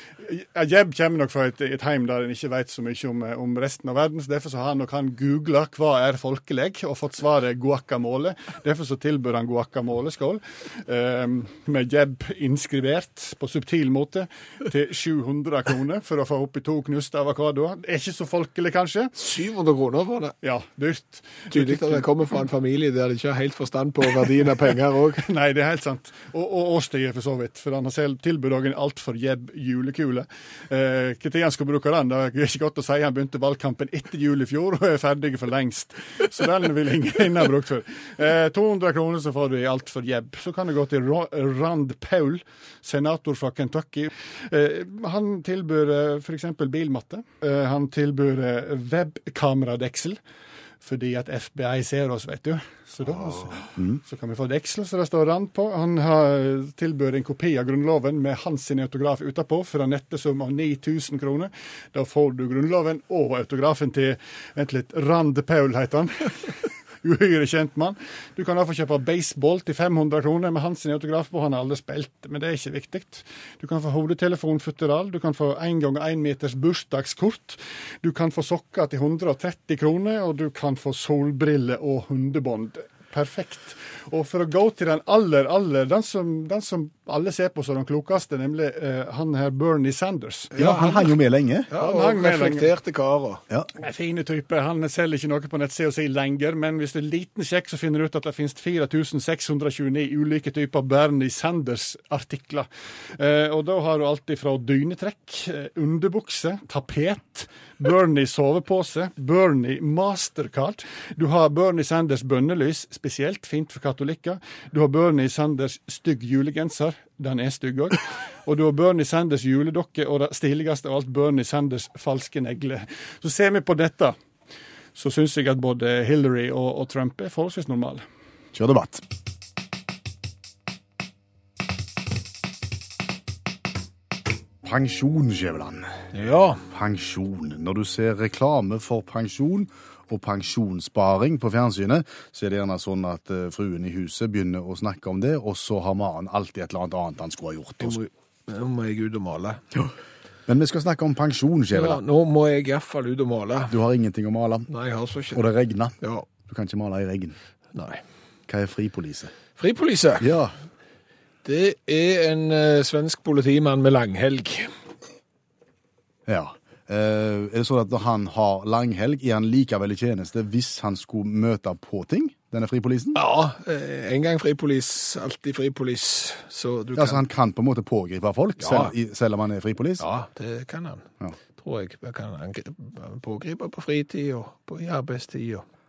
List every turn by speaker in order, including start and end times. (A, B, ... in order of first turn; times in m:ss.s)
0:00.2-0:19.1 A
0:19.2-0:20.3 B
0:20.4-0:22.0 A
0:21.5-0:25.3 B
0:25.2-0:50.2 A
0:50.8-1:30.6 A
0:53.0-0:53.6 B
1:30.5-1:31.2 B
1:30.6-1:31.7 C
1:31.7-1:33.4 B
1:31.8-1:32.7 A
1:33.8-2:04.2 A
2:05.0-2:08.0 A
2:08.5-2:09.0 C
2:14.6-2:15.9 C
2:16.1-2:16.6 B
2:16.7-2:28.0 C
2:27.8-2:29.6 B
2:30.5-2:32.0 C
2:31.7-2:33.8 B
2:33.7-2:34.7 C
2:34.7-2:35.4 B
2:35.3-2:37.4 C
2:36.0-2:36.3 B
2:37.7-2:38.0 B
2:38.5-2:39.3 C
2:39.6-2:40.3 B
2:40.2-2:40.6 C
2:41.4-2:44.7 B
2:46.3-2:53.2 C
2:53.2-2:57.2 B
2:57.0-3:00.1 C
2:58.6-2:59.0 B
3:00.0-3:05.7 B